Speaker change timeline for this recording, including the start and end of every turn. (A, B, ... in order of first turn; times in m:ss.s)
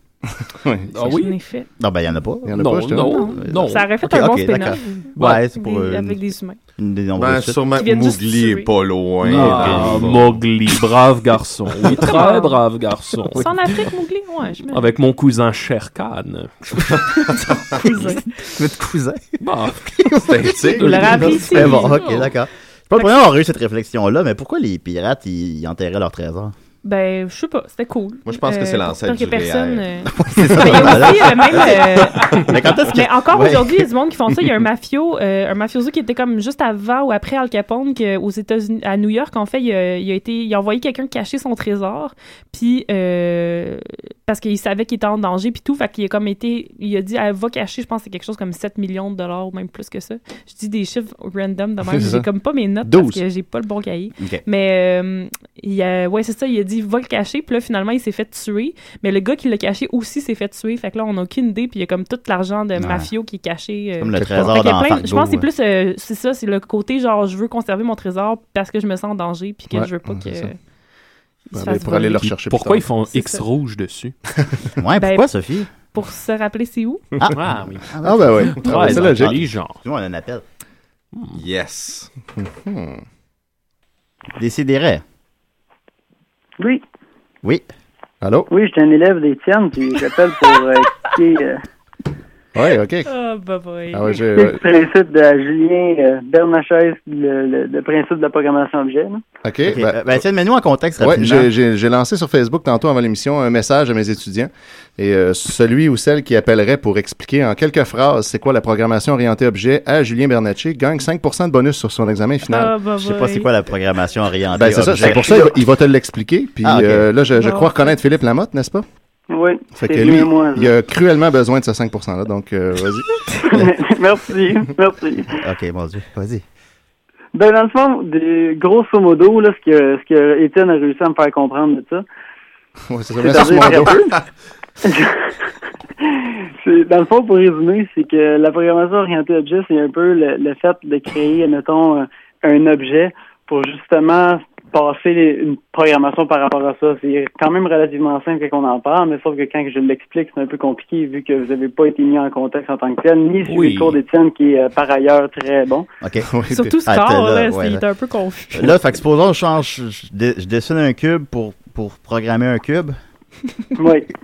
0:00.6-0:00.9 A
0:00.9-0:01.3 B
0:01.0-0:01.7 C
0:01.8-0:02.6 D
0:02.4-0:03.2 A
0:02.6-0:03.9 B
0:03.0-0:06.6 C
0:03.4-0:06.2 D
0:06.8-0:07.6 D
0:07.2-0:10.4 E
0:07.7-0:08.7 C
0:09.2-0:10.1 D
0:09.3-0:13.4 B
0:12.0-0:12.6 C
0:13.3-0:14.9 C
0:14.7-0:16.9 B
0:17.3-0:18.3 C
0:18.4-0:26.5 D
0:19.4-0:19.9 B
0:20.2-0:21.8 E
0:20.7-0:22.0 C
0:20.8-0:22.3 B
0:26.8-1:10.6 C
0:28.2-0:30.0 E
0:30.1-0:31.8 D
0:30.8-0:31.8 E
0:32.5-0:33.8 D
0:51.8-0:52.3 A
0:52.8-0:53.2 A
1:02.8-1:03.1 D
1:04.0-1:05.4 D
1:04.1-1:04.5 A
1:09.7-1:10.5 A
1:11.5-1:12.3 C
1:11.5-1:12.9 A
1:12.3-1:14.1 B
1:13.0-1:13.4 C
1:14.8-1:15.7 D
1:15.0-1:17.0 C
1:17.2-1:20.4 D
1:17.3-1:17.9 B
1:18.0-1:19.4 A
1:18.5-1:19.8 B
1:21.1-1:21.4 B
1:21.3-1:22.1 E
1:22.4-1:23.0 A
1:24.4-1:25.0 D
1:28.2-1:28.5 A
1:28.5-1:31.6 F
1:32.5-1:33.1 A
1:33.1-1:34.1 C
1:33.9-1:34.6 A
1:34.3-1:39.2 F
1:39.4-1:40.2 A
1:39.7-1:41.5 D
1:41.0-1:52.8 A
1:52.4-1:53.5 C
1:53.0-1:55.5 D
1:54.5-1:58.8 A
1:56.6-1:57.1 D
1:57.3-1:58.0 C
1:59.3-2:00.7 F
1:59.7-2:03.7 A
2:03.5-2:05.4 F
2:05.4-2:06.4 D
2:07.3-2:12.0 F
2:12.9-2:14.1 A
2:13.2-2:14.1 F
2:14.9-2:15.5 F
2:16.1-2:35.9 F
2:33.5-2:34.0 B
2:36.2-2:36.8 A
2:36.5-2:38.7 C
2:36.8-2:37.8 D
2:38.5-2:43.0 D
2:43.8-2:44.1 F